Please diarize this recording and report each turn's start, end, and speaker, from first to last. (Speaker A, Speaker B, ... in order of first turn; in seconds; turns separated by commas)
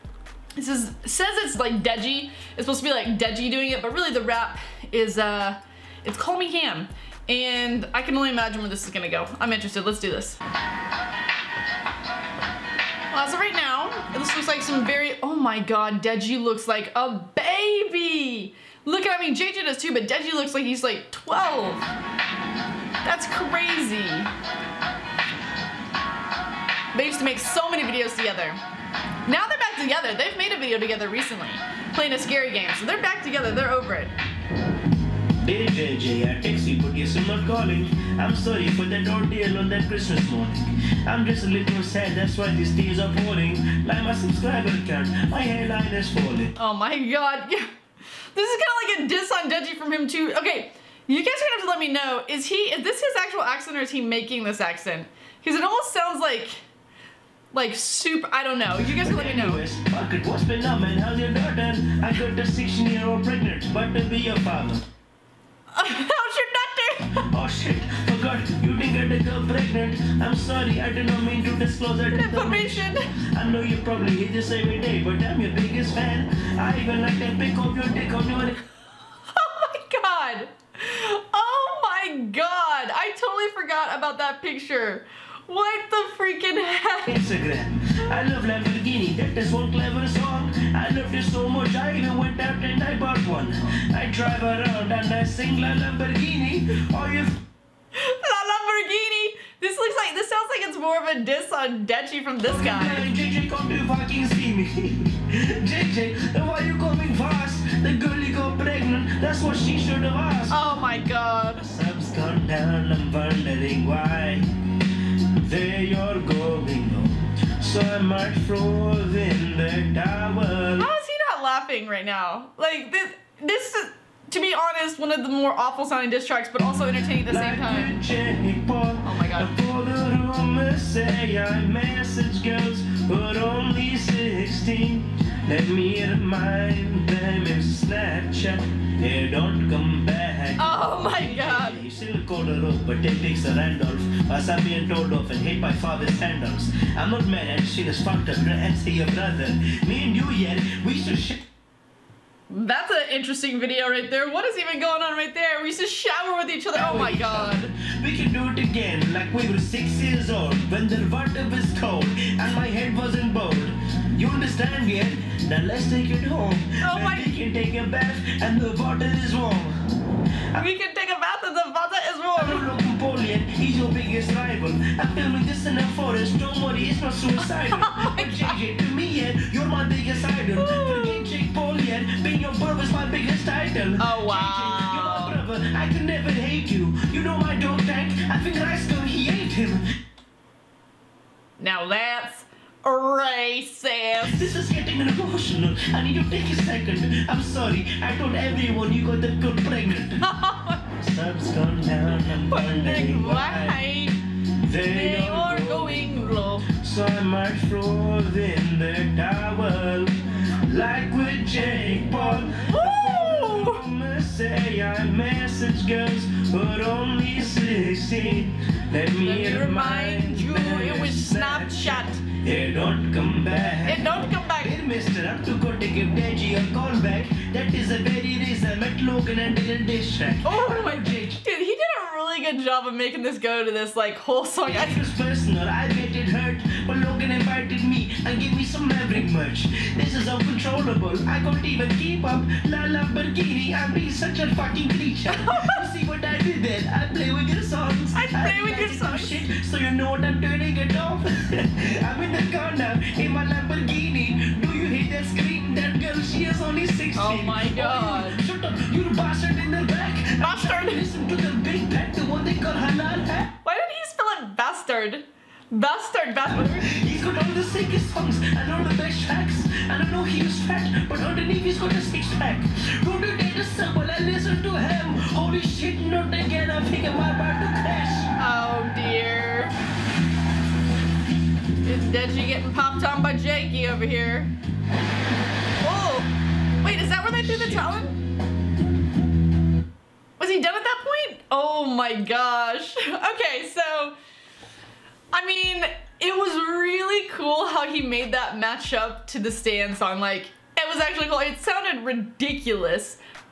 Speaker A: 0.6-10.4, Speaker A: 13.1-21.8, Speaker A: 23.1-24.3, Speaker A: 26.9-28.6, Speaker A: 29.2-34.1, Speaker B: 35.4-46.5, Speaker A: 46.6-47.7, Speaker A: 48.3-56.6, Speaker A: 57.5-59.6, Speaker B: 58.8-64.8, Speaker A: 65.7-67.2, Speaker B: 67.2-78.6, Speaker A: 72.1-73.1, Speaker A: 79.3-87.2, Speaker B: 87.1-97.4, Speaker A: 97.9-103.1, Speaker B: 102.5-110.6, Speaker A: 110.5-111.6, Speaker B: 111.6-114.5, Speaker B: 115.4-120.9, Speaker A: 120.8-128.0, Speaker B: 127.3-151.4, Speaker A: 129.0-129.5, Speaker A: 140.6-141.8, Speaker A: 152.5-157.7, Speaker B: 156.7-169.8, Speaker A: 166.8-167.3, Speaker A: 170.5-172.7, Speaker B: 172.4-189.8, Speaker A: 177.4-178.5, Speaker A: 180.6-181.4, Speaker A: 184.0-185.3, Speaker A: 191.6-194.5, Speaker B: 194.2-200.2, Speaker A: 200.2-200.8, Speaker B: 200.9-203.8, Speaker A: 202.5-204.2, Speaker B: 204.6-231.4, Speaker A: 204.9-206.7, Speaker A: 212.3-213.8, Speaker A: 219.2-222.2, Speaker A: 223.8-224.8, Speaker A: 230.4-235.0, Speaker B: 234.7-263.5, Speaker A: 245.3-245.8, Speaker A: 248.1-249.5, Speaker A: 257.1-258.4, Speaker A: 260.4-261.0, Speaker A: 263.6-266.9, Speaker B: 266.5-278.3, Speaker A: 278.4-279.7, Speaker A: 281.8-284.5, Speaker A: 285.8-286.3, Speaker A: 286.8-288.1, Speaker B: 287.4-288.1, Speaker A: 290.4-294.1, Speaker A: 295.3-303.2